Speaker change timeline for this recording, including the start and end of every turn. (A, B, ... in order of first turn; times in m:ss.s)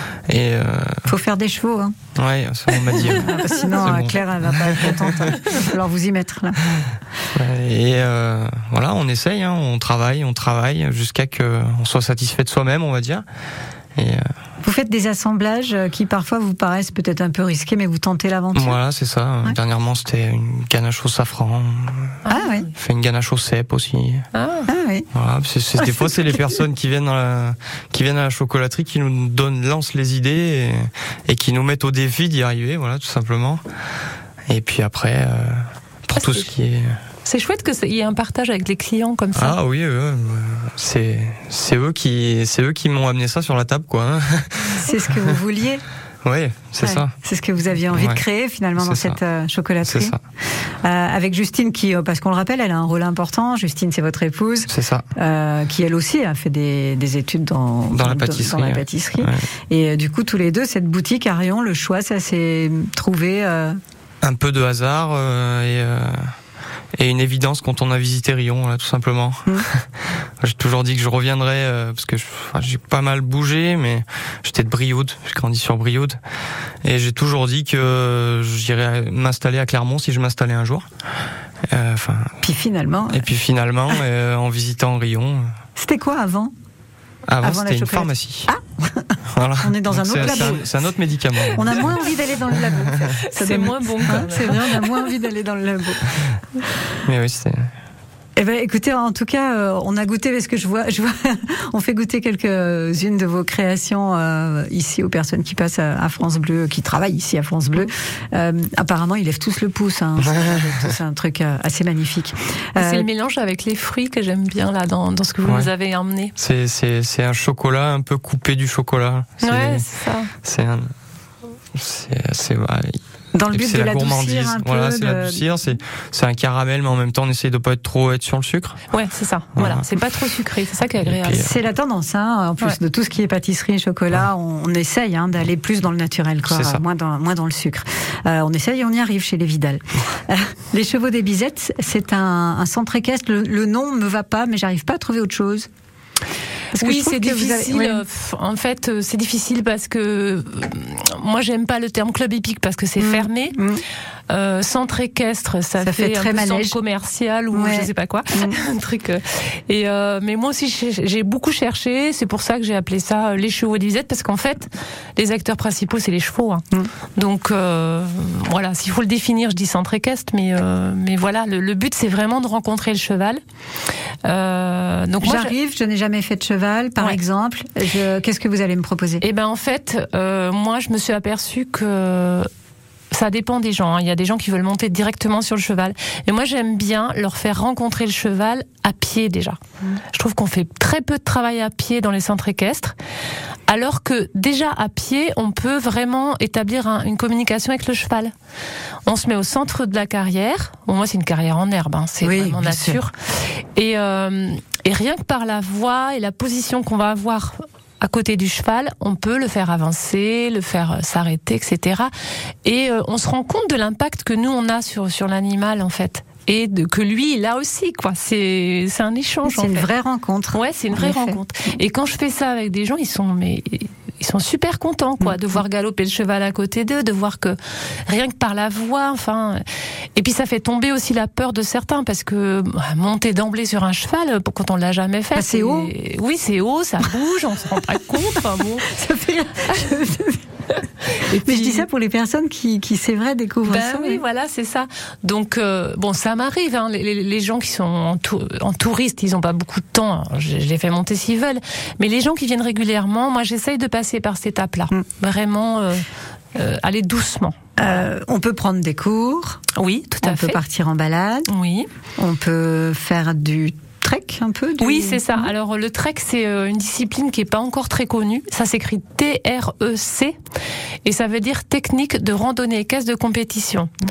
0:00.3-0:01.1 A
0:01.1-0:01.9 B
0:02.2-0:05.3 A
0:02.9-0:06.6 B
0:07.4-0:13.2 A
0:14.0-0:14.2 A
0:14.6-0:18.8 B
0:18.6-0:22.2 A
0:22.2-0:22.6 C
0:22.3-0:22.7 B
0:22.8-0:24.3 A
0:24.3-0:24.7 C
0:24.7-0:25.1 B
0:25.1-0:33.6 A
0:25.8-0:26.4 B
0:34.5-0:37.0 A
0:36.2-0:36.5 C
0:37.3-0:39.6 C
0:39.4-0:45.3 A
0:44.8-0:45.8 B
0:46.2-0:47.1 A
0:46.8-0:50.2 B
0:47.9-0:48.2 A
0:48.8-0:49.2 A
0:49.9-0:50.2 A
0:50.8-1:03.8 B
0:54.7-0:55.1 A
0:57.9-0:59.4 A
1:04.2-1:06.3 A
1:07.0-1:09.8 A
1:10.4-1:16.2 A
1:16.8-1:20.9 A
1:21.7-1:22.3 A
1:22.4-1:23.3 B
1:23.1-1:25.5 A
1:25.8-1:26.5 B
1:27.3-1:28.5 A
1:27.4-1:30.9 B
1:29.3-1:32.0 A
1:31.5-1:36.0 B
1:33.3-1:35.1 C
1:37.0-1:37.7 A
1:38.4-1:53.1 B
1:52.8-1:56.3 C
1:56.4-1:59.8 A
1:59.4-2:00.3 C
2:00.4-2:00.9 A
2:01.8-2:03.0 A
2:03.3-2:05.4 B
2:03.5-2:08.8 A
2:08.9-2:11.5 C
2:09.6-2:10.0 A
2:11.0-2:11.5 A
2:11.4-2:25.7 B
2:16.5-2:16.8 A
2:26.7-2:28.0 B
2:26.8-2:33.6 C
2:33.0-2:33.8 B
2:34.3-2:46.6 C
2:35.8-2:36.8 B
2:37.5-2:38.6 B
2:47.2-2:53.4 C
2:54.2-2:55.5 C
2:55.2-2:59.2 B
2:59.2-3:02.5 C
3:03.1-3:09.6 C
3:10.1-3:13.0 C
3:13.7-3:18.3 C
3:19.1-3:23.1 C
3:22.2-3:23.0 B
3:23.8-3:32.1 C
3:32.6-3:39.9 C
3:39.4-3:41.4 B
3:40.5-3:49.6 C
3:50.2-3:58.9 C
3:55.4-3:55.9 B
3:58.8-4:00.4 B
4:01.1-4:01.9 C
4:01.4-4:04.2 B
4:03.7-4:17.6 C
4:17.8-4:19.6 B
4:19.8-4:20.6 C
4:20.2-4:21.5 B
4:21.5-4:21.9 C
4:22.2-4:25.5 B
4:24.8-4:30.4 C
4:31.0-4:33.9 C